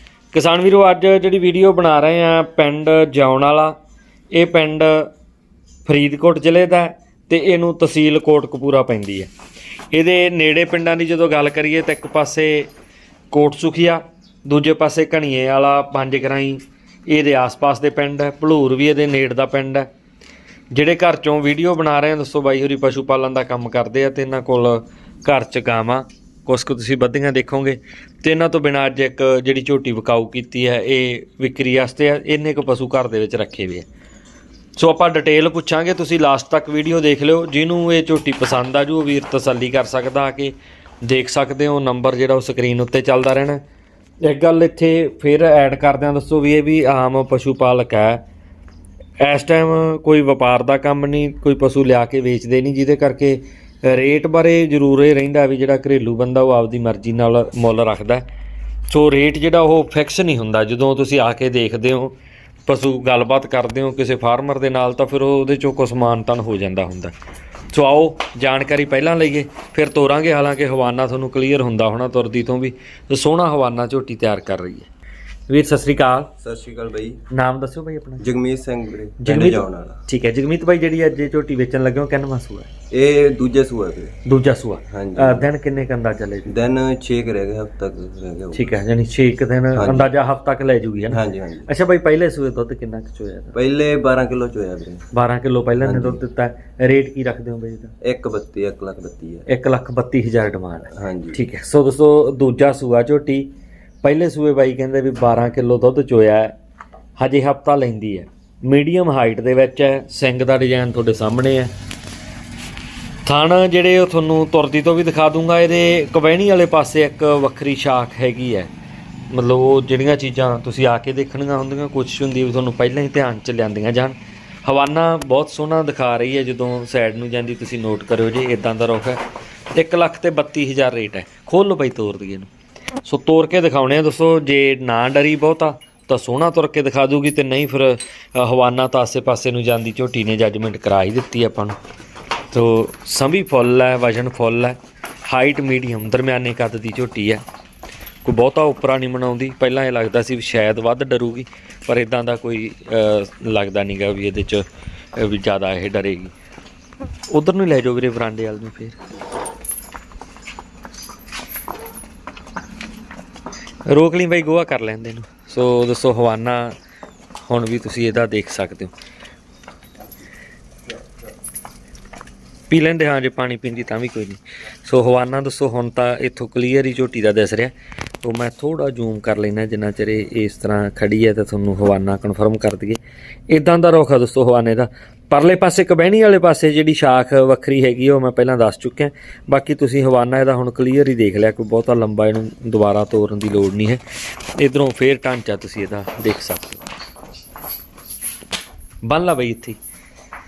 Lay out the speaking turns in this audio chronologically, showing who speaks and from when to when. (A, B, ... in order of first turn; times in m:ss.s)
0:00.3-0:03.8 A
0:04.3-0:05.1 A
0:05.8-0:09.3 A
0:09.9-0:12.7 A
0:13.3-0:19.9 A
0:20.7-0:33.9 A
0:34.8-0:43.6 A
0:44.2-0:48.2 A
0:49.2-0:58.2 A
0:58.9-1:02.1 A
1:02.6-1:07.1 A
1:07.7-1:14.9 A
1:15.5-1:16.3 A
1:16.4-1:17.2 B
1:17.3-1:18.2 A
1:18.2-1:20.0 B
1:19.2-1:22.7 A
1:22.9-1:24.2 B
1:24.2-1:26.6 A
1:24.9-1:25.5 B
1:26.5-1:28.8 B
1:28.5-1:33.5 A
1:29.7-1:30.1 B
1:31.1-1:31.7 B
1:33.5-1:35.0 B
1:35.1-1:37.9 A
1:35.8-1:36.2 B
1:38.0-1:39.5 B
1:39.5-1:43.5 A
1:40.9-1:41.4 B
1:44.0-1:46.5 A
1:47.2-1:51.7 A
1:53.2-1:58.7 A
1:59.3-2:09.2 A
2:09.7-2:12.5 A
2:13.0-2:21.8 A
2:22.5-2:27.4 A
2:28.2-2:36.3 A
2:37.3-2:39.0 A
2:43.9-2:46.8 A
2:47.4-2:48.9 A
2:52.7-3:14.0 A
3:14.6-3:16.8 A
3:19.0-3:19.8 A